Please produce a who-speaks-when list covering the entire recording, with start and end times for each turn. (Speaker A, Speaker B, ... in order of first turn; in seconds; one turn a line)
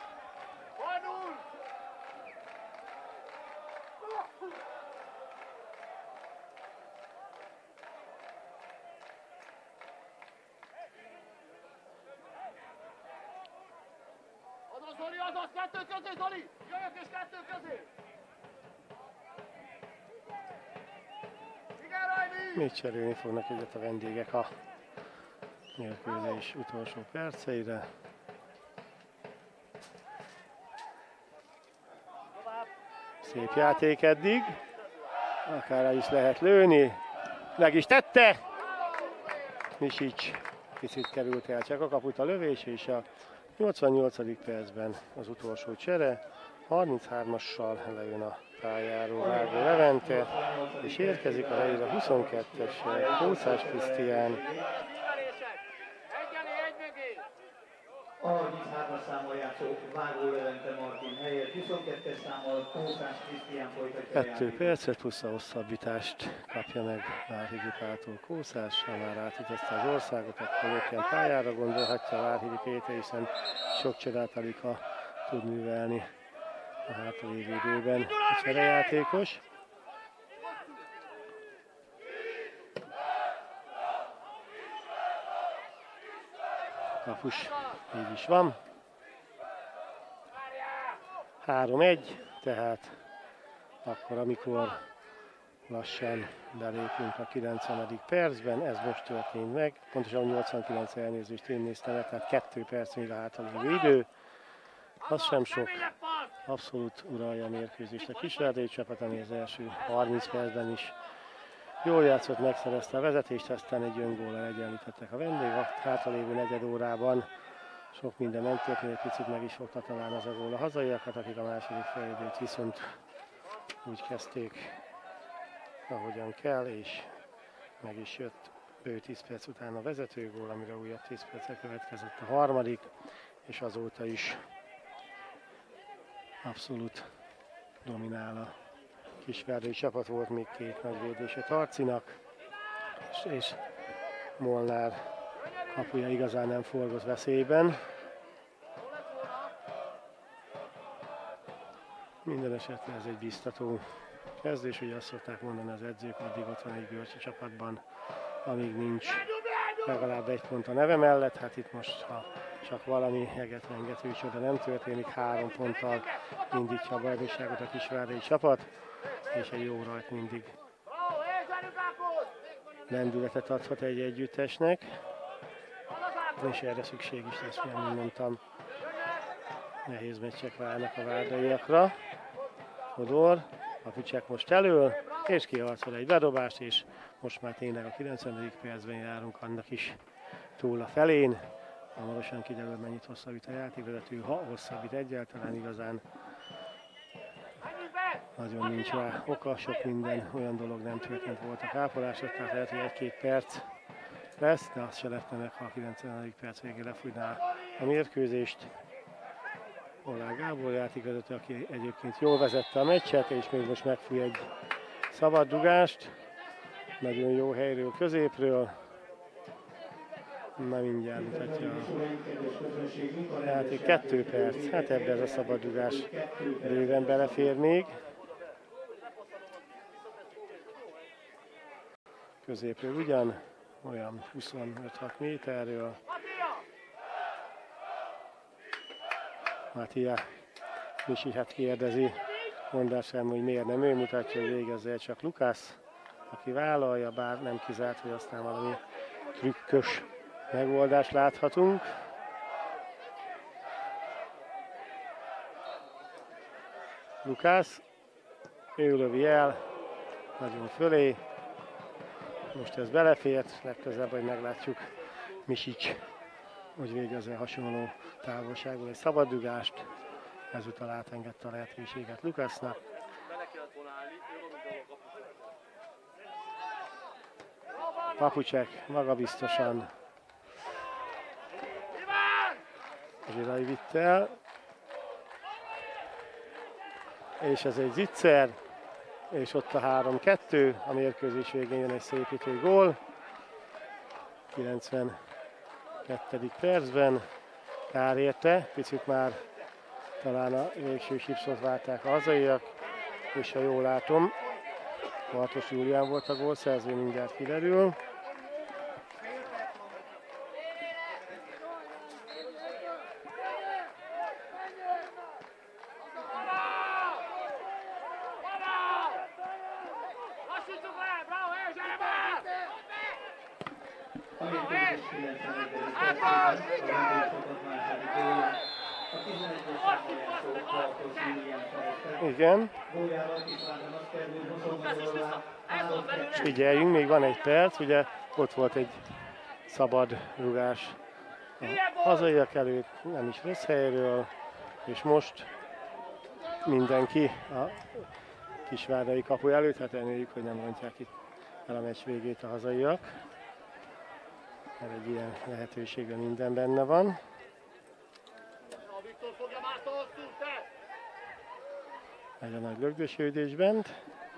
Speaker A: 14.7-17.9
Speaker A: 21.8-22.5
Speaker B: 22.5-24.5
Speaker B: 25.8-27.9
Speaker B: 33.2-34.6
Speaker B: 35.5-37.0
Speaker B: 37.6-38.4
Speaker B: 39.8-43.1
Speaker B: 43.6-54.4
Speaker C: 49.1-54.7
Speaker A: 55.0-55.4
Speaker A: 56.1-57.2
Speaker C: 58.2-64.8
Speaker B: 64.1-76.1
Speaker B: 76.9-79.4
Speaker B: 87.0-88.6
Speaker B: 91.4-93.0
Speaker B: 93.8-94.8
Speaker B: 95.7-104.1
Speaker B: 105.0-105.9
Speaker A: 105.8-106.2
Speaker B: 106.4-111.0
Speaker B: 111.8-117.3
Speaker B: 117.9-122.9
Speaker B: 123.8-124.8
Speaker B: 125.9-127.1
Speaker B: 127.8-132.9
Speaker B: 133.4-134.4
Speaker B: 136.4-137.1
Speaker B: 137.8-138.6
Speaker B: 139.2-142.2
Speaker B: 143.1-143.6
Speaker B: 144.4-145.0
Speaker B: 145.7-147.8
Speaker A: 148.9-149.3
Speaker B: 152.2-153.8
Speaker B: 154.4-157.8
Speaker B: 158.4-168.7
Speaker B: 169.3-170.6
Speaker A: 170.9-172.3
Speaker B: 172.9-174.9
Speaker B: 176.4-178.4
Speaker B: 179.8-182.0
Speaker B: 182.9-190.0
Speaker B: 190.6-191.4
Speaker B: 191.9-196.0
Speaker A: 197.7-198.2
Speaker B: 198.4-203.7
Speaker B: 204.4-208.7
Speaker B: 210.0-214.5
Speaker B: 215.1-216.2
Speaker B: 217.0-218.8
Speaker B: 220.6-221.9
Speaker C: 221.1-227.5
Speaker B: 223.4-226.1
Speaker B: 226.6-228.0
Speaker B: 232.4-236.0
Speaker B: 239.7-240.3
Speaker B: 241.0-245.8
Speaker B: 246.3-248.8
Speaker B: 249.3-251.9
Speaker B: 257.2-257.8
Speaker B: 258.8-259.6
Speaker B: 260.4-261.2
Speaker B: 262.5-264.9
Speaker B: 265.4-266.0
Speaker B: 266.8-269.9
Speaker B: 270.5-272.8
Speaker B: 278.2-279.9
Speaker B: 283.2-284.4
Speaker B: 287.4-288.6
Speaker B: 289.3-293.0
Speaker B: 294.5-295.2
Speaker B: 296.1-297.2
Speaker B: 297.9-299.4
Speaker B: 300.2-302.7
Speaker B: 303.3-304.3
Speaker B: 305.3-308.0
Speaker A: 318.6-319.1
Speaker A: 320.4-322.6
Speaker C: 324.4-336.5
Speaker B: 332.2-332.7
Speaker B: 336.3-339.0
Speaker B: 339.7-341.0
Speaker B: 341.6-344.3
Speaker B: 344.9-345.5
Speaker B: 346.6-348.1
Speaker B: 348.7-351.1
Speaker B: 351.7-353.1
Speaker B: 354.8-357.2
Speaker A: 358.8-360.6
Speaker B: 362.4-363.9